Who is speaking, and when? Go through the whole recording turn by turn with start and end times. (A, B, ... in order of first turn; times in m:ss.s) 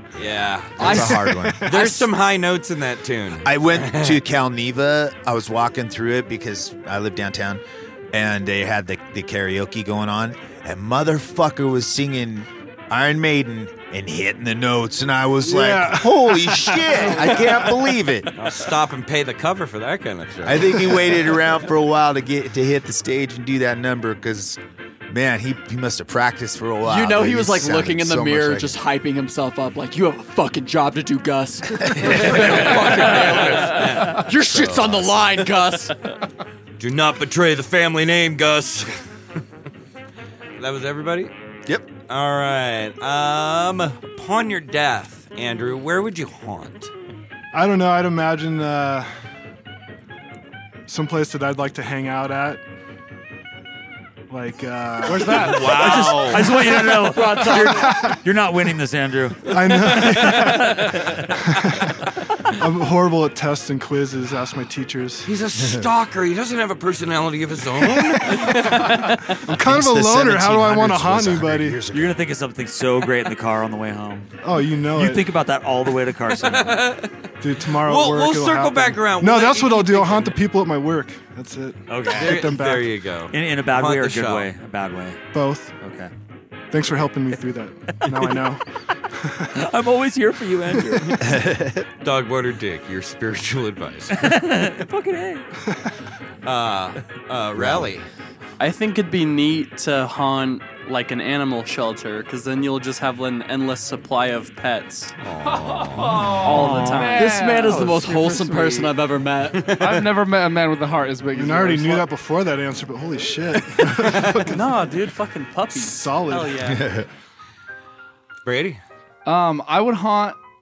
0:00.2-0:04.2 A
0:00.8-0:01.7 B
0:00.8-0:02.1 C
0:03.4-0:18.3 B
0:15.4-0:17.8 D
0:16.9-0:17.7 C
0:18.3-0:21.0 A
0:20.4-0:28.8 B
0:26.8-0:36.1 C
0:31.8-0:32.5 B
0:32.0-0:35.1 A
0:36.8-0:38.9 A
0:40.6-0:41.3 A
0:42.1-0:46.9 A
0:47.5-0:49.1 D
0:50.9-0:52.6 D
0:54.3-0:56.3 D
0:55.1-0:56.7 A
0:55.2-1:01.2 E
0:56.4-0:58.2 C
0:57.6-0:58.2 D
0:59.4-1:05.3 D
1:05.2-1:09.1 A
1:08.1-1:11.8 D
1:09.5-1:12.2 B
1:11.9-1:14.3 E
1:14.4-1:15.3 D
1:14.9-1:16.9 E
1:16.4-1:17.1 A
1:17.4-1:23.0 D
1:17.7-1:20.3 A
1:21.9-1:22.6 E
1:22.1-1:24.5 A
1:23.3-1:25.2 E
1:25.3-1:25.7 D
1:25.8-1:26.1 E
1:26.7-1:29.6 D
1:29.5-1:31.2 E
1:31.2-1:31.9 B
1:32.0-1:34.3 A
1:34.1-1:35.4 E
1:36.4-1:38.0 A
1:37.5-1:37.9 B
1:38.6-1:45.1 F
1:45.2-1:46.5 A
1:45.9-1:48.9 G
1:46.4-1:47.3 F
1:46.5-1:47.2 E
1:47.1-1:49.8 C
1:49.6-1:52.1 G
1:51.3-1:54.8 D
1:53.9-1:54.5 A
1:54.5-1:56.9 F
1:55.7-1:56.8 D
1:56.6-1:57.1 B
1:58.4-1:58.8 A
1:59.2-2:00.4 G